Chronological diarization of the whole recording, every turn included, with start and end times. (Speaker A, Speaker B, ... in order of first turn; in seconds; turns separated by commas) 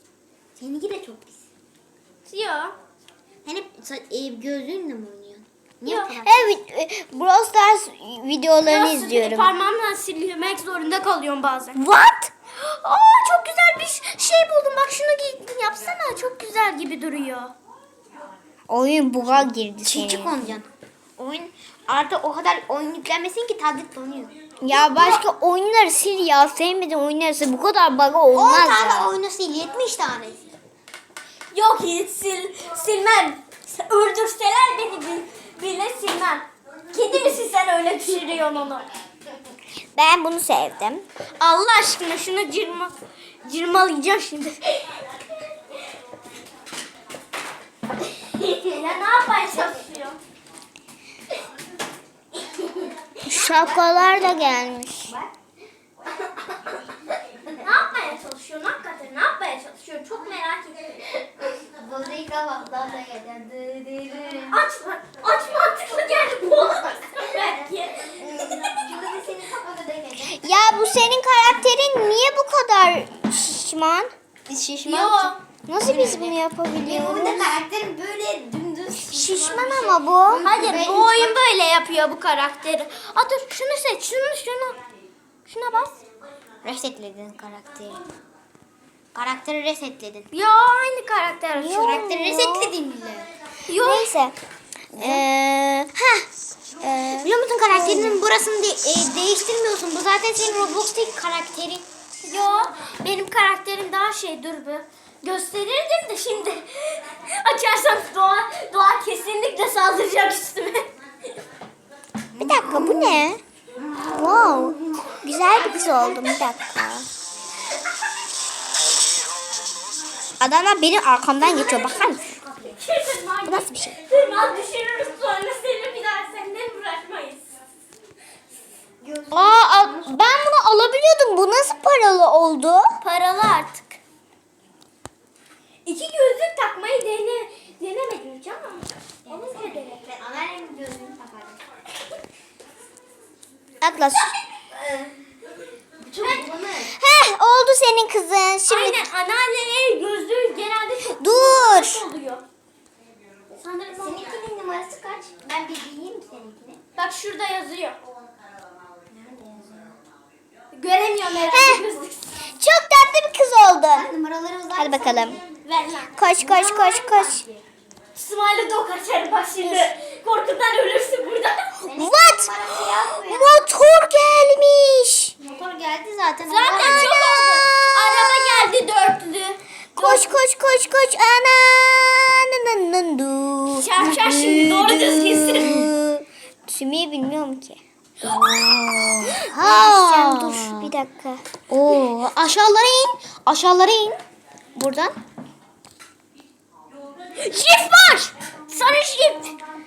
Speaker A: 0.6-1.5, Speaker B: 2.3-2.8, Speaker A: 3.5-6.6, Speaker B: 5.8-6.1, Speaker C: 6.2-9.5, Speaker B: 8.7-11.8, Speaker C: 11.8-12.3, Speaker B: 12.6-17.5, Speaker C: 18.7-20.5, Speaker A: 19.8-24.3, Speaker C: 24.6-29.1, Speaker B: 24.7-25.2, Speaker A: 28.3-30.4, Speaker B: 31.5-38.9, Speaker C: 40.0-41.0, Speaker B: 41.4-42.9, Speaker B: 43.4-45.0, Speaker B: 48.3-50.2, Speaker C: 53.2-55.1, Speaker A: 53.3-54.5, Speaker A: 55.1-55.3, Speaker B: 57.6-61.1, Speaker A: 61.5-64.6, Speaker B: 64.5-68.5, Speaker A: 67.2-70.5, Speaker C: 70.2-74.1, Speaker A: 74.5-81.4, Speaker B: 74.8-75.4, Speaker C: 75.7-77.5, Speaker C: 78.9-80.5, Speaker B: 80.4-84.8, Speaker B: 85.5-86.0, Speaker A: 86.6-88.0, Speaker A: 89.1-90.3, Speaker B: 90.3-92.0, Speaker C: 91.6-92.8, Speaker A: 91.7-93.3, Speaker B: 93.7-94.1, Speaker C: 93.8-94.4, Speaker C: 94.9-96.1, Speaker A: 95.0-95.2, Speaker C: 96.8-98.2, Speaker A: 97.2-101.9, Speaker B: 102.2-110.9, Speaker A: 112.3-113.2, Speaker C: 112.4-113.4, Speaker A: 113.8-115.2, Speaker C: 114.0-117.1, Speaker A: 115.8-116.2, Speaker C: 120.4-122.3, Speaker A: 121.4-122.8, Speaker B: 122.7-127.5, Speaker C: 123.4-124.0, Speaker A: 129.0-130.4, Speaker B: 129.3-130.1, Speaker C: 129.9-132.9, Speaker B: 133.0-134.0, Speaker B: 135.8-140.0, Speaker A: 139.3-141.6, Speaker C: 143.8-144.3, Speaker A: 144.7-145.1, Speaker A: 146.0-146.9, Speaker B: 146.2-146.5, Speaker C: 146.9-149.0, Speaker B: 148.7-152.4, Speaker C: 151.2-152.0, Speaker A: 153.5-156.8, Speaker B: 157.0-158.0, Speaker A: 159.1-160.0, Speaker B: 160.7-162.3, Speaker C: 161.5-161.8, Speaker C: 162.5-164.1, Speaker A: 163.9-165.5, Speaker C: 164.8-165.4, Speaker B: 165.6-166.2, Speaker C: 166.2-167.4, Speaker A: 166.2-167.6, Speaker B: 168.2-171.7, Speaker C: 169.6-169.9, Speaker A: 171.8-173.7, Speaker C: 171.9-175.3, Speaker A: 175.4-177.2, Speaker B: 176.5-180.4, Speaker C: 176.7-178.7, Speaker C: 180.0-187.8, Speaker B: 183.7-185.9, Speaker A: 188.2-190.9, Speaker C: 189.3-191.4, Speaker A: 191.7-194.2, Speaker A: 194.8-195.2, Speaker B: 197.4-199.6